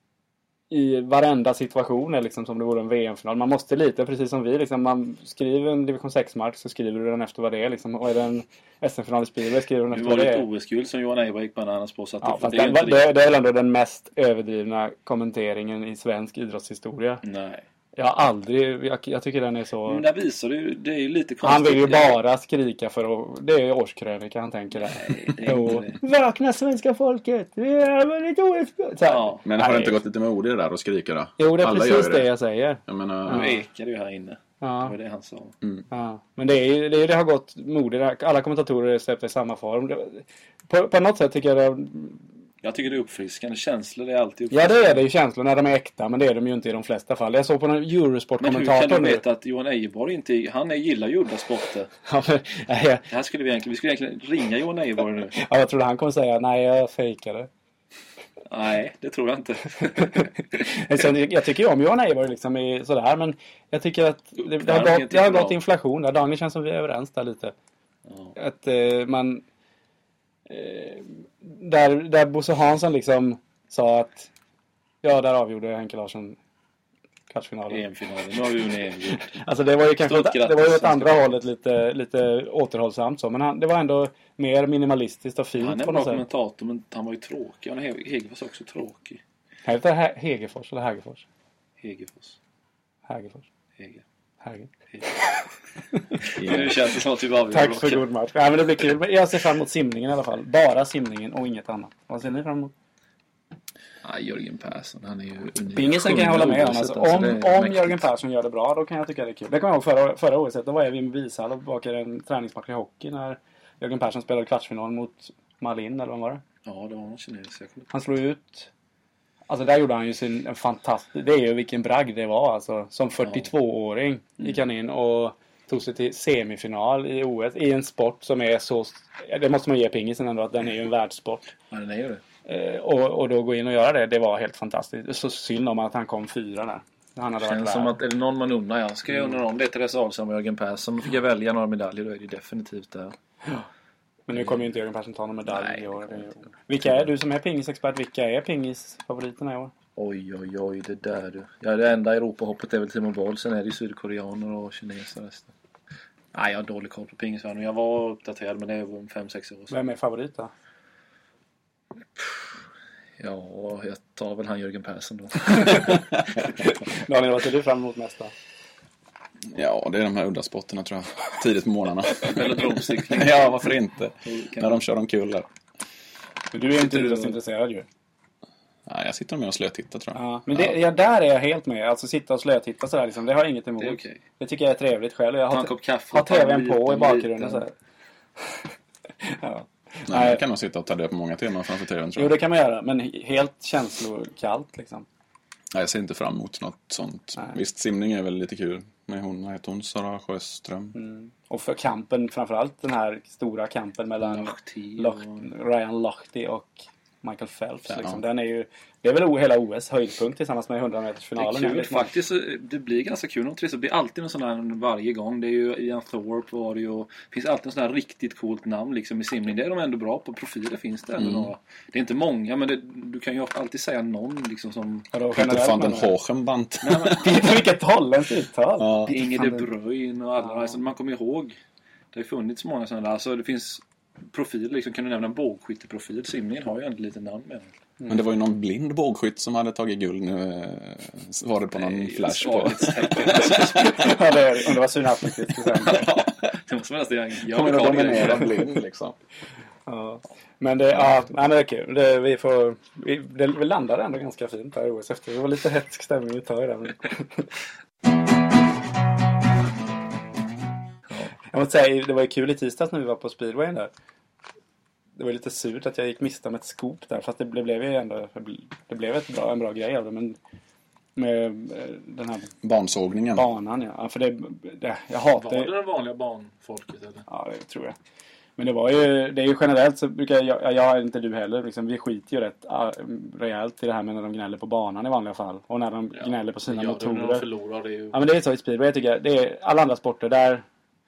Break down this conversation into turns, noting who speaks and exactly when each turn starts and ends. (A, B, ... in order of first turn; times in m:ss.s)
0:00.7-0:10.4 A
0:09.9-0:13.1 B
0:12.2-0:17.2 A
0:17.2-0:17.6 B
0:18.0-0:20.0 A
0:19.9-0:22.2 B
0:21.4-0:30.0 A
0:24.7-0:26.0 B
0:29.0-0:29.4 B
0:29.4-0:32.3 C
0:31.4-0:33.6 A
0:32.8-0:33.5 C
0:33.3-0:35.5 B
0:34.6-0:34.9 A
0:35.9-0:42.2 A
0:42.6-0:45.0 B
0:44.5-0:49.2 A
0:48.4-0:51.9 B
0:52.0-0:53.0 A
0:53.1-0:55.4 B
0:55.3-0:57.5 A
0:58.5-1:00.3 B
0:59.9-1:07.5 A
1:04.4-1:05.6 B
1:08.1-1:08.3 B
1:08.4-1:09.4 A
1:10.5-1:14.3 A
1:15.0-1:16.4 A
1:17.3-1:17.8 A
1:17.7-1:19.3 B
1:19.1-1:26.2 A
1:20.0-1:21.3 B
1:25.6-1:29.2 B
1:29.6-1:31.2 A
1:31.8-1:32.4 B
1:33.1-1:33.4 A
1:33.8-1:34.0 B
1:34.4-1:36.6 A
1:36.2-1:38.0 B
1:36.4-1:36.7 C
1:37.5-1:42.7 A
1:44.0-1:48.1 B
1:45.7-1:56.4 A
1:56.6-1:57.9 B
1:57.9-1:58.7 A
1:59.5-2:11.5 A
2:11.7-2:12.2 B
2:12.4-2:18.0 A
2:17.4-2:23.1 B
2:24.3-2:29.7 A
2:25.5-2:26.5 B
2:30.0-2:35.5 B
2:36.3-2:39.7 B
2:39.7-2:40.5 A
2:43.2-2:46.0 B
2:45.6-2:45.9 A
2:46.6-2:48.3 A
2:49.5-2:52.4 C
2:52.2-2:53.6 B
2:53.0-2:55.5 C
2:54.2-2:54.8 B
2:56.5-2:57.8 A
2:56.7-2:57.4 B
2:58.8-3:00.7 C
3:00.1-3:07.7 A
3:03.8-3:04.2 B
3:05.5-3:07.6 B
3:09.2-3:10.4 A
3:10.1-3:12.4 C
3:12.2-3:15.0 A
3:15.7-3:20.9 C
3:20.9-3:32.1 A
3:24.2-3:25.5 B
3:27.9-3:28.2 C
3:31.4-3:45.1 B
3:41.2-3:41.5 C
3:45.1-3:46.1 A
3:45.3-3:47.3 C
3:46.8-3:47.5 B
3:47.2-3:49.7 A
3:48.8-3:49.1 C
3:49.1-3:51.6 B
3:52.1-3:57.7 B
3:58.1-4:04.1 C
4:01.7-4:04.4 B
4:03.8-4:06.1 A
4:05.8-4:08.7 B
4:07.4-4:09.2 C
4:09.9-4:17.5 A
4:21.5-4:23.9 A
4:25.2-4:30.4 A
4:31.2-4:32.5 A
4:32.6-4:33.5 C
4:33.3-4:35.7 A
4:35.4-4:37.2 B
4:37.3-4:37.9 A
4:38.6-4:47.4 A
4:46.2-4:48.2 B
4:48.1-4:50.6 A